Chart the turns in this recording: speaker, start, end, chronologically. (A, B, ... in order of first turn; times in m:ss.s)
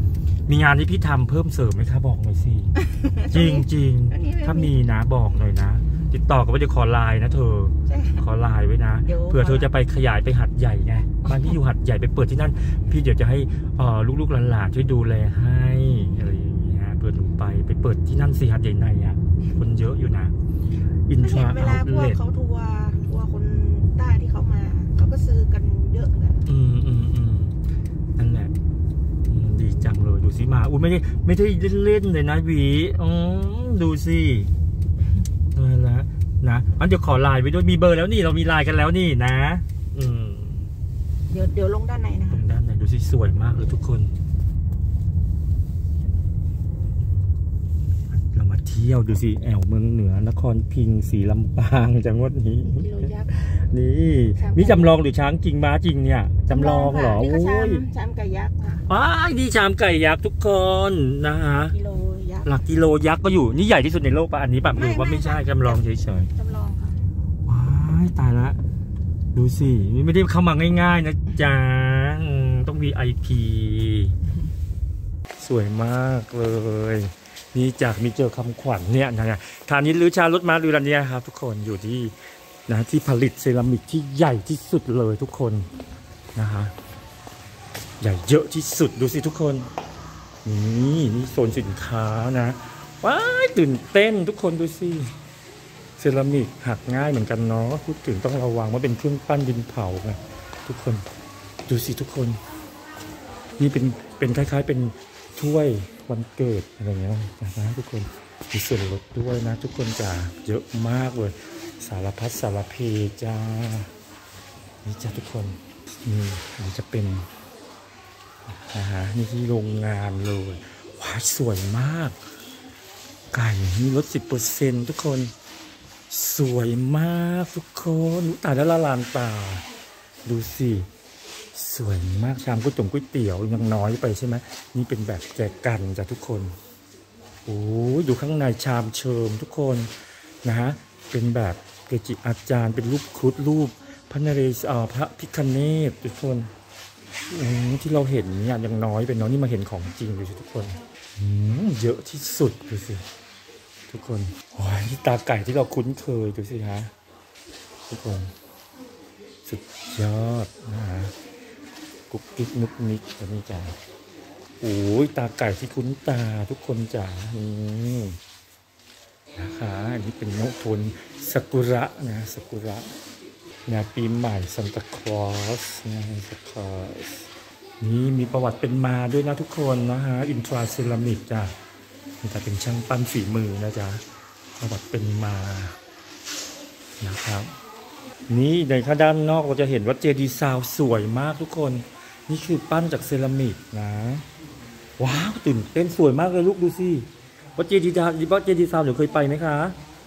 0:00.5-0:02.8 A
0:02.8-0:04.7 B
0:03.3-0:20.3 A
0:07.9-0:08.2 B
0:09.1-0:09.7 B
0:21.1-0:22.2 A
0:21.2-0:26.5 B
0:26.5-0:27.6 A
0:28.2-0:28.5 A
0:29.3-0:34.5 A
0:35.5-0:40.7 A
0:41.3-0:42.4 B
0:42.3-0:44.2 A
0:48.2-0:57.8 A
0:52.6-0:53.3 B
0:54.4-0:55.0 B
0:56.5-0:58.8 B
0:58.9-1:01.8 A
1:01.7-1:02.5 B
1:02.4-1:06.3 A
1:04.7-1:05.8 B
1:06.3-1:07.0 B
1:07.5-1:08.6 A
1:09.3-1:14.2 A
1:15.4-1:22.2 A
1:22.7-1:25.7 A
1:26.4-1:26.7 A
1:28.0-1:29.7 A
1:30.4-1:35.1 A
1:36.0-1:41.1 A
1:41.7-1:42.4 A
1:43.6-1:53.9 A
1:54.8-1:57.3 A
1:58.5-2:02.2 A
2:03.3-2:05.3 A
2:06.1-2:09.6 A
2:10.3-2:10.9 A
2:11.5-2:16.6 A
2:17.5-2:19.9 A
2:20.4-2:26.5 A
2:27.3-2:33.0 A
2:33.9-2:36.9 A
2:37.9-2:38.3 A
2:39.4-2:41.1 A
2:42.1-2:43.8 A
2:44.6-2:48.2 A
2:49.4-2:52.9 A
2:53.7-2:57.3 A
2:57.8-3:01.6 A
3:02.2-3:04.0 A
3:04.6-3:05.8 A
3:07.0-3:07.5 A
3:08.3-3:14.3 A
3:15.0-3:19.8 A